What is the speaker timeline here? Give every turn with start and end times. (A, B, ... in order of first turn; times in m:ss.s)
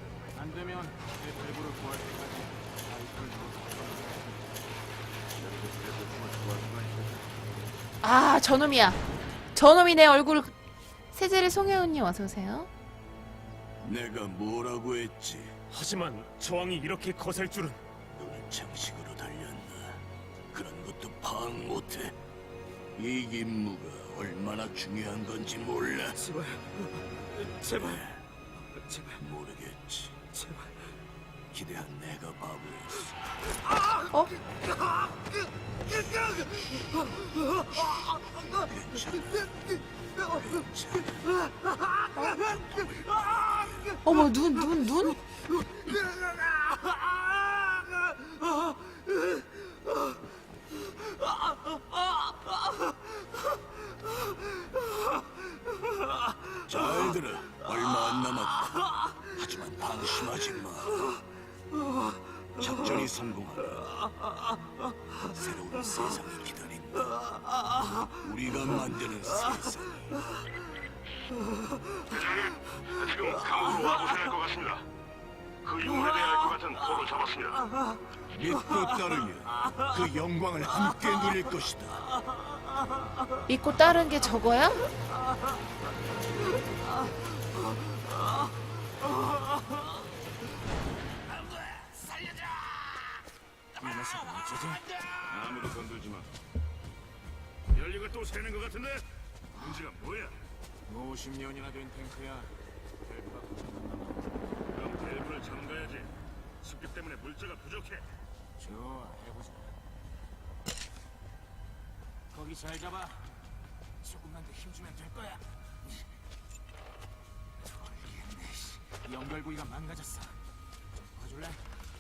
0:00.3-0:04.5 A
0:05.4-0:07.2 B
0:08.0-0:09.0 C
0:09.6-0:10.6 C
0:11.1-0:12.7 C
0:13.8-0:15.5 D
0:15.7-0:17.8 E
0:18.2-0:20.0 D
0:20.5-0:22.2 D
0:23.0-0:26.4 D
0:27.4-0:28.2 D
0:29.1-0:30.6 D
0:31.5-0:33.2 D
0:37.9-0:39.5 D
0:40.4-0:41.1 D
0:43.5-0:43.9 D
0:44.0-0:45.2 C
0:56.6-1:01.1 D
1:02.6-1:03.8 D
1:05.2-1:07.2 D
1:08.1-1:10.1 D
1:13.0-1:14.8 F
1:16.7-1:17.1 F
1:17.1-1:17.4 B
1:18.3-1:22.1 D
1:23.5-1:24.8 C
1:33.8-1:34.9 A
1:35.3-1:36.3 B
1:37.7-1:39.0 B
1:39.6-1:39.8 A
1:39.6-1:40.4 B
1:40.9-1:44.6 A
1:44.7-1:46.1 B
1:46.6-1:48.0 B
1:48.6-1:49.8 A
1:52.3-1:53.4 A
1:54.0-1:56.1 A
1:57.6-2:00.4 A
2:01.1-2:01.6 A